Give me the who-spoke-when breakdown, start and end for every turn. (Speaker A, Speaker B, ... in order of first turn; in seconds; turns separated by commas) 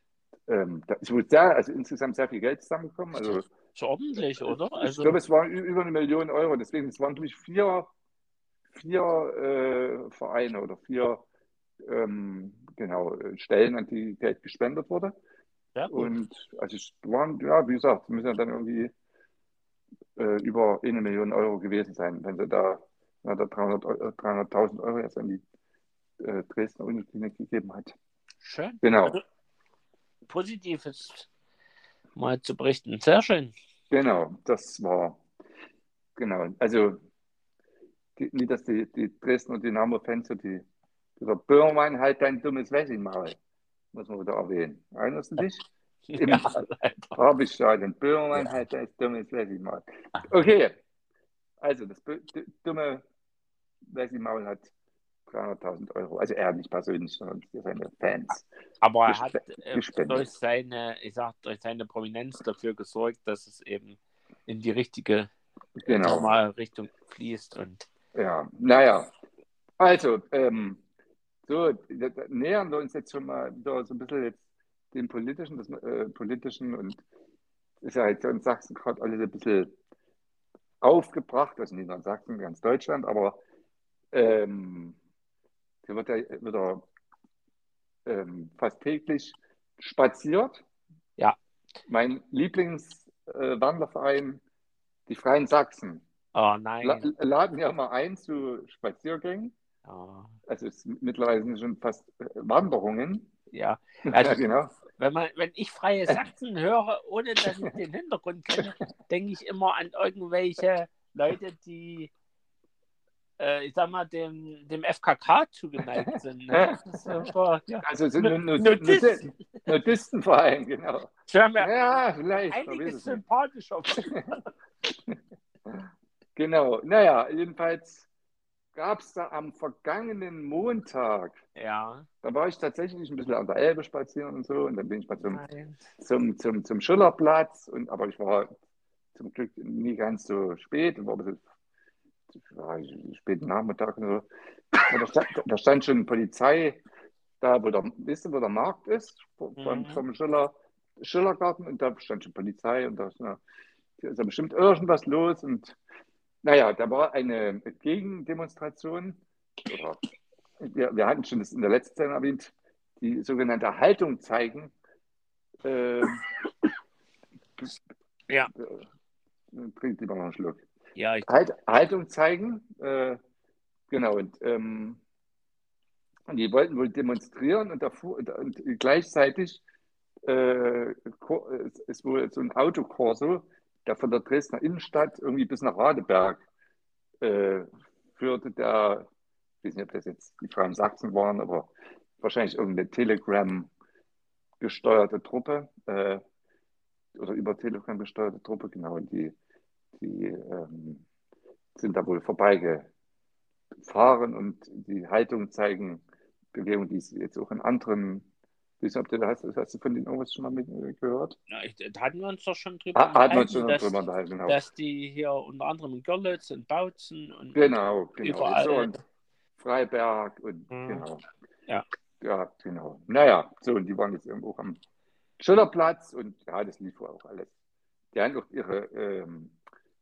Speaker A: 0.5-3.4, Speaker B: 3.1-5.2, Speaker A: 4.8-7.9, Speaker A: 8.7-11.2, Speaker A: 11.8-15.2, Speaker B: 15.8-16.1, Speaker A: 15.9-18.9, Speaker A: 20.2-25.4, Speaker A: 26.2-27.9, Speaker B: 28.4-29.2, Speaker A: 28.8-29.2, Speaker B: 30.3-31.3, Speaker B: 32.2-33.5, Speaker A: 33.9-35.2, Speaker A: 36.2-37.0, Speaker A: 38.2-40.6, Speaker A: 41.2-43.4, Speaker A: 43.9-45.6, Speaker B: 46.1-47.2, Speaker A: 46.2-46.6, Speaker A: 47.1-50.7, Speaker A: 51.6-53.0, Speaker A: 53.9-54.7, Speaker A: 55.3-58.5, Speaker B: 58.8-65.3, Speaker A: 59.1-60.3, Speaker A: 65.8-66.3, Speaker B: 65.9-67.9, Speaker A: 68.2-69.1, Speaker A: 69.8-70.8, Speaker A: 71.5-77.0, Speaker A: 77.8-79.8, Speaker A: 80.8-83.4, Speaker A: 84.1-85.0, Speaker A: 85.8-86.9, Speaker A: 88.1-90.6, Speaker A: 91.9-94.4, Speaker A: 95.1-96.0, Speaker B: 96.3-97.1, Speaker A: 96.8-99.5, Speaker B: 99.8-100.4, Speaker A: 100.5-103.3, Speaker B: 103.5-112.1, Speaker A: 104.1-104.7, Speaker B: 113.4-119.7, Speaker A: 116.5-117.3, Speaker A: 117.8-123.2, Speaker B: 121.3-121.7, Speaker B: 122.5-124.5, Speaker A: 124.9-125.2, Speaker A: 125.7-128.1, Speaker A: 128.7-131.4, Speaker B: 131.6-132.1, Speaker A: 132.2-135.4, Speaker B: 135.3-135.8, Speaker A: 136.0-138.6, Speaker A: 139.2-141.4, Speaker A: 142.4-144.3, Speaker A: 144.8-146.8, Speaker A: 147.4-153.4, Speaker B: 149.6-150.0, Speaker A: 154.0-155.8, Speaker A: 156.4-160.0, Speaker A: 160.6-164.7, Speaker A: 165.6-166.2, Speaker A: 168.6-168.8, Speaker A: 169.5-170.7, Speaker B: 171.0-171.3, Speaker A: 171.3-173.2, Speaker A: 173.9-175.0, Speaker A: 176.3-179.6, Speaker A: 180.2-186.4, Speaker A: 187.2-189.1, Speaker A: 189.6-193.7, Speaker A: 194.6-196.2, Speaker A: 197.2-199.3, Speaker A: 200.0-201.1, Speaker A: 201.8-202.9, Speaker A: 203.8-208.3, Speaker A: 208.8-211.4, Speaker B: 211.5-219.0, Speaker A: 212.9-214.6, Speaker A: 217.5-218.9, Speaker A: 219.6-221.2, Speaker B: 220.7-221.1, Speaker A: 222.2-224.8, Speaker A: 225.4-227.5, Speaker A: 228.1-229.6